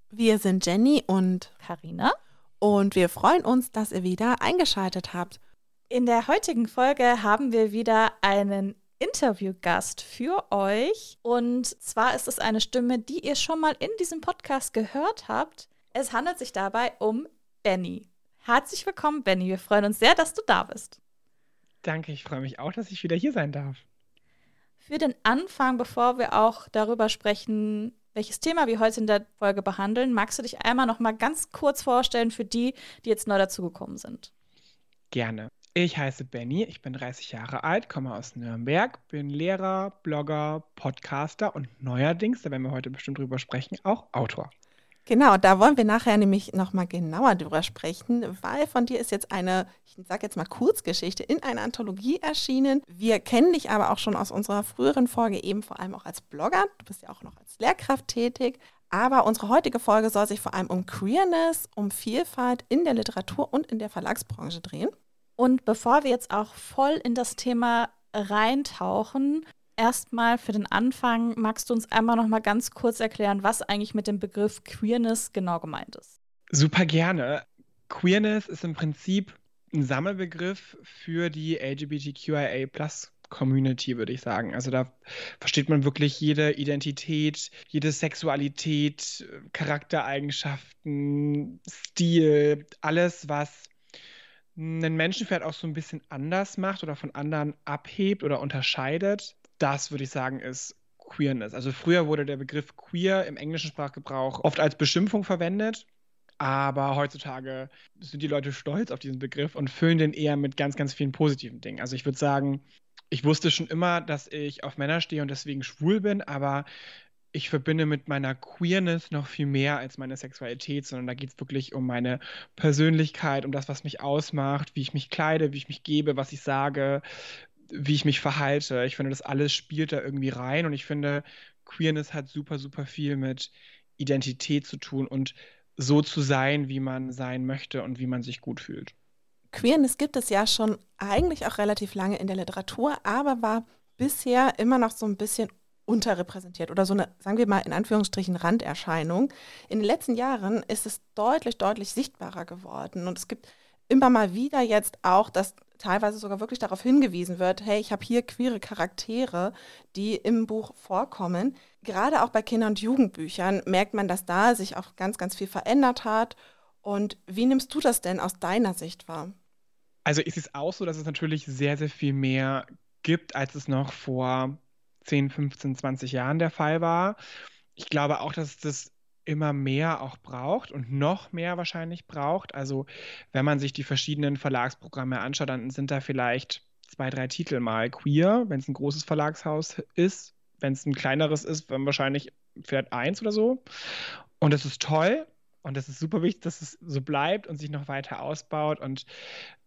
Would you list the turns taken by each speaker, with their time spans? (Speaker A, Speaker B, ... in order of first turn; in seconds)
Speaker A: 0.1-1.5, 2.6-5.4, 45.1-64.9, 139.5-169.3
Speaker B: 1.6-2.2, 5.9-21.0, 24.8-34.3, 65.4-76.1
Speaker C: 21.8-23.8, 35.1-44.5, 76.5-93.7, 94.5-105.9, 106.4-116.7, 117.3-127.0, 127.7-138.9, 170.1-177.2, 177.8-193.6, 194.4-199.1